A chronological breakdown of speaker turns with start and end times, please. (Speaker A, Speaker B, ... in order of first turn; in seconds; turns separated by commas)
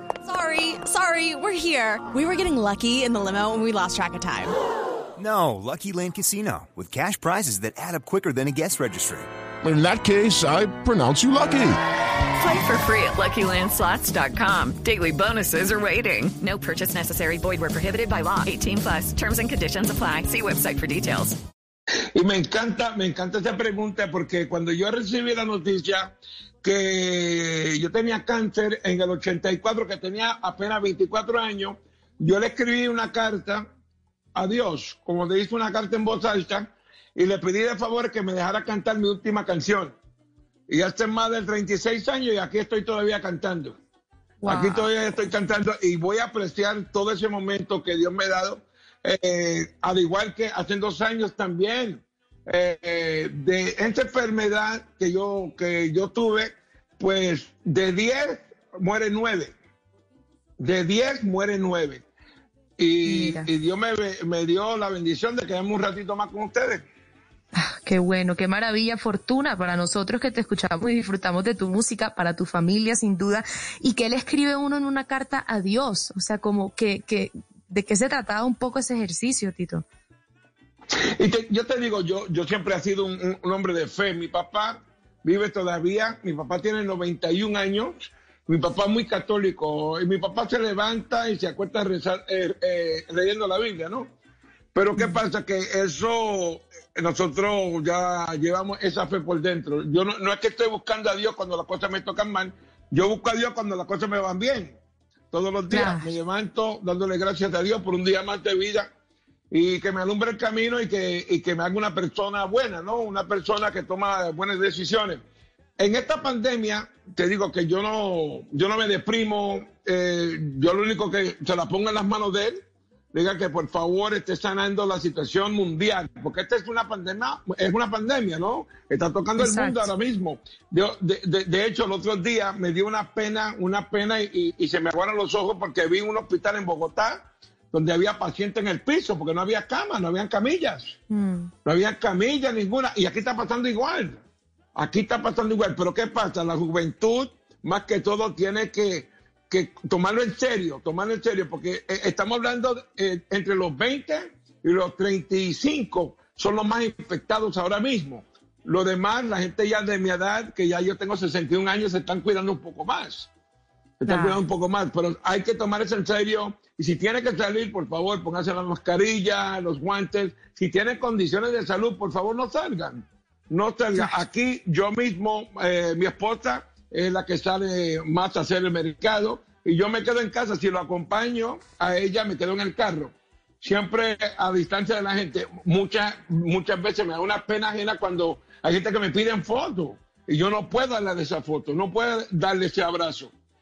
Speaker A: 0.2-4.5, Speaker B: 5.2-9.3, Speaker C: 9.6-11.8, Speaker D: 12.4-21.4, Speaker E: 22.1-33.7, Speaker E: 34.4-40.0, Speaker E: 40.7-43.8, Speaker F: 44.4-44.9, Speaker E: 44.5-59.5, Speaker E: 60.6-62.0, Speaker E: 62.8-66.8, Speaker F: 63.0-63.5, Speaker F: 67.5-79.8, Speaker E: 81.2-94.1, Speaker E: 94.8-104.8, Speaker E: 105.3-108.9, Speaker F: 105.7-106.1, Speaker E: 109.5-115.2, Speaker E: 115.8-122.6, Speaker E: 123.1-141.0, Speaker F: 129.4-129.9, Speaker F: 141.1-141.5, Speaker E: 141.7-144.2, Speaker E: 144.8-163.3, Speaker E: 164.0-193.3, Speaker F: 164.1-164.4